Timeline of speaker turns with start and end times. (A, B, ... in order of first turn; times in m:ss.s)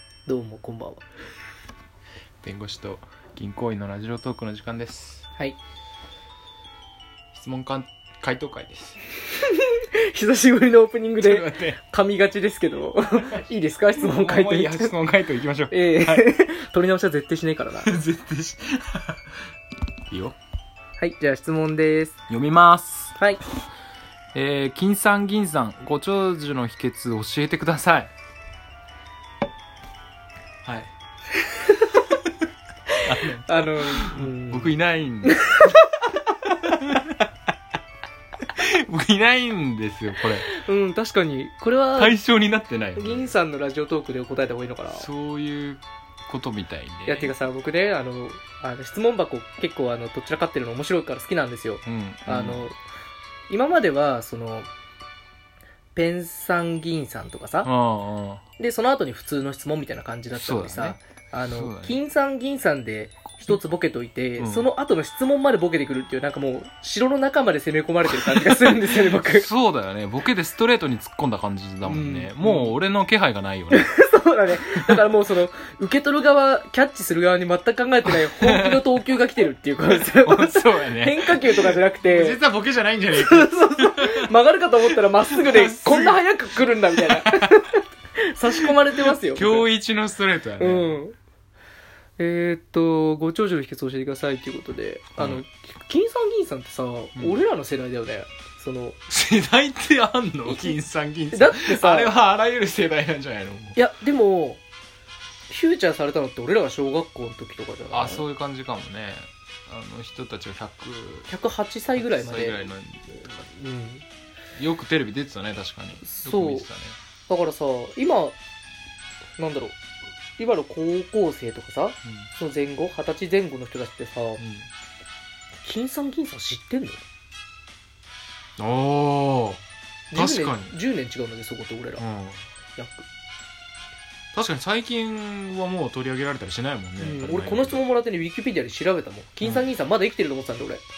0:00.2-0:01.0 A
0:02.4-0:05.2 B
0:07.3-0:09.0 B
0:09.3-0:15.0 A
0:11.2-0:11.8 B
0:13.9-0:16.3 B
0:15.7-0:17.9 A
0:17.8-0:19.2 B
0:20.1-0:20.4 B
0:21.0-0:22.2 A
0:22.3-0:23.2 B
0:24.3-0:28.1 B
0:30.6-0:30.9 B
0:31.5-0:31.9 A
0:33.0-0:35.4 B
0:33.4-0:35.8 A
0:36.5-0:37.2 B
0:38.5-0:40.5 B
0:40.4-0:42.2 A
0:42.0-0:43.3 B
0:43.0-0:45.1 A
0:44.9-0:47.3 B
0:47.0-0:52.8 A
0:51.8-0:52.7 B
0:53.5-0:54.7 A
0:55.9-0:57.7 A
0:57.6-0:58.4 B
0:58.6-1:09.5 A
1:00.3-1:02.0 B
1:04.4-1:04.7 B
1:08.2-1:13.9 B
1:11.8-1:12.8 A
1:13.7-1:22.4 A
1:18.0-1:18.9 B
1:20.0-1:24.3 B
1:23.1-1:29.7 A
1:25.3-1:27.6 B
1:28.5-1:31.0 B
1:30.6-1:31.2 A
1:32.2-1:39.0 A
1:35.2-1:35.4 B
1:37.2-1:37.4 B
1:39.1-1:43.8 B
1:40.5-1:40.8 A
1:41.3-1:42.1 A
1:43.7-1:44.6 A
1:45.5-1:48.2 A
1:47.9-1:51.3 B
1:51.3-1:54.0 A
1:52.0-1:53.2 B
1:54.6-1:57.0 B
1:56.0-1:56.7 A
1:57.3-1:58.4 A
1:59.4-1:59.8 A
2:00.4-2:04.4 A
2:02.0-2:02.3 B
2:04.4-2:04.7 B
2:05.6-2:07.0 A
2:08.6-2:09.6 B
2:10.1-2:12.0 A
2:10.1-2:10.8 B
2:12.0-2:12.4 B
2:12.8-2:13.0 A
2:14.3-2:17.8 B
2:17.0-2:20.8 A
2:19.4-2:19.7 B